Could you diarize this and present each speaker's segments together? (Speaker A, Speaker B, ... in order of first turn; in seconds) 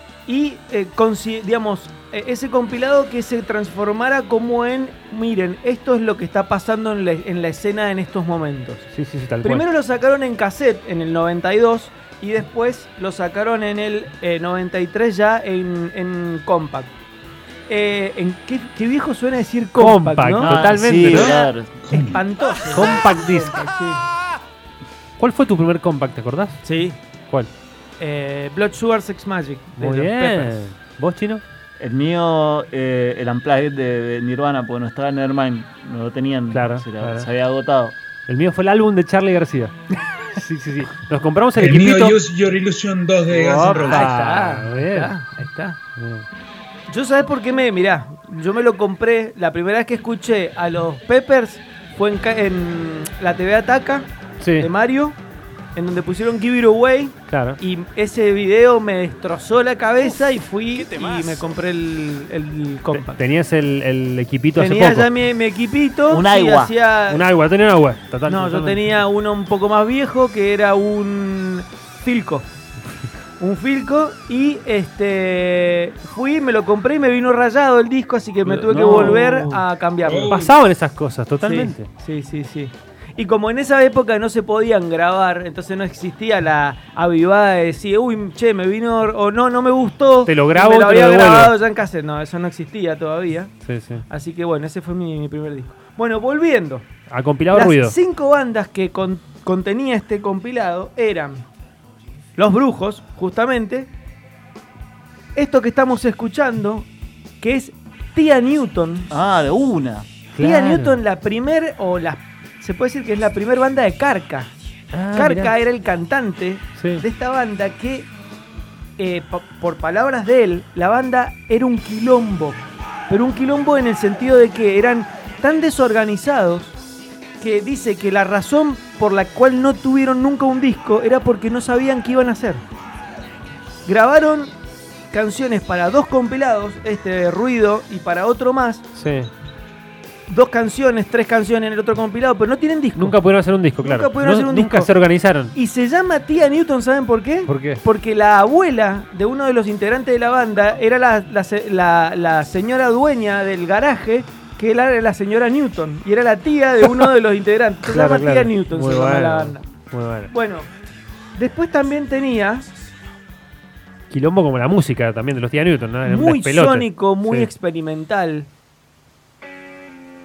Speaker A: 0.3-8.8, 9.4-16.9, 17.7-24.0, 26.6-27.0, 28.0-30.6, 43.9-45.8, 46.9-55.2, 55.8-63.2, 64.6-67.2, 68.2-72.5, 73.4-80.5, 81.4-93.5, 94.1-96.8, 97.5-101.5, 102.3-103.9, 105.3-106.9, 107.4-109.1, 110.4-114.5, 115.1-118.1, 119.0-126.8, 127.4-132.6, 133.9-134.5, 135.1-138.8, 140.3-143.1, 143.8-144.9, 145.5-159.6, 160.3-160.7, 161.4-162.7, 166.1-168.5
Speaker B: 8.9-9.6, 19.8-21.3, 22.7-23.6, 25.2-26.6, 29.8-31.4, 36.5-37.3, 38.3-39.7, 40.3-42.2, 43.4-45.1, 46.0-46.2, 54.4-54.7, 57.3-57.6, 62.9-65.1, 67.1-68.8, 78.5-79.6, 80.3-81.9, 90.3-91.5, 93.6-94.0, 97.1-98.0, 110.3-111.0, 114.9-115.5, 116.8-117.0, 138.9-139.3, 142.9-145.5, 147.5-147.8, 157.9-160.3, 164.1-167.5
Speaker C: 20.4-21.8, 31.8-37.9, 43.3-44.0, 66.1-66.7, 109.1-110.1
Speaker D: 41.6-44.1, 80.0-80.4